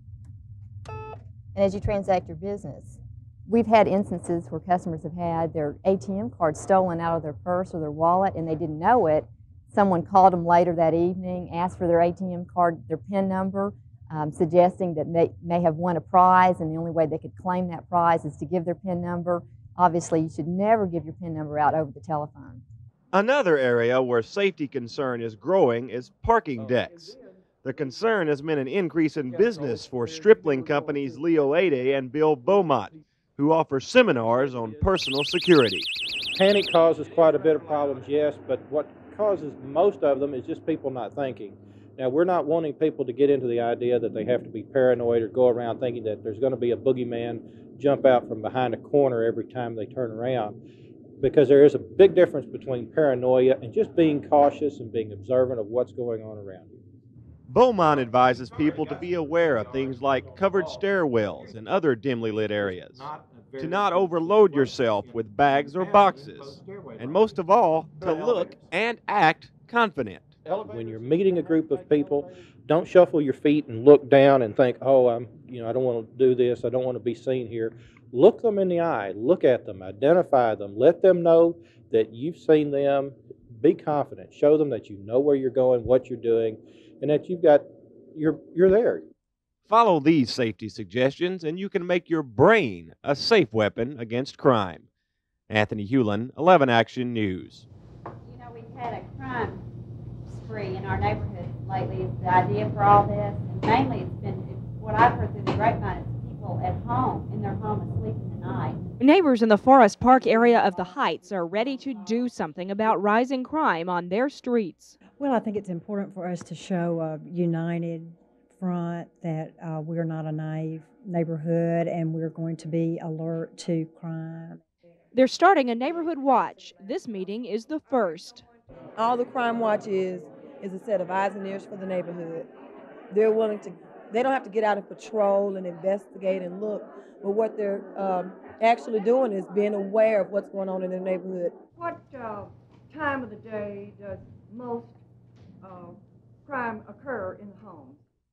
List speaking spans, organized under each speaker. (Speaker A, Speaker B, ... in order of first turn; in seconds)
Speaker A: 1.6-22.6
Speaker B: 23.1-35.9, 57.5-70.3, 89.7-94.9, 95.5-97.7
Speaker C: 36.4-50.6, 51.2-56.8, 70.6-89.1
Speaker D: 98.2-99.6, 100.3-108.8
Speaker E: 109.0-115.0, 125.1-128.4
Speaker F: 115.2-124.6
Speaker G: 129.0-132.5, 133.1-141.6
Speaker H: 141.8-145.0, 145.6-148.0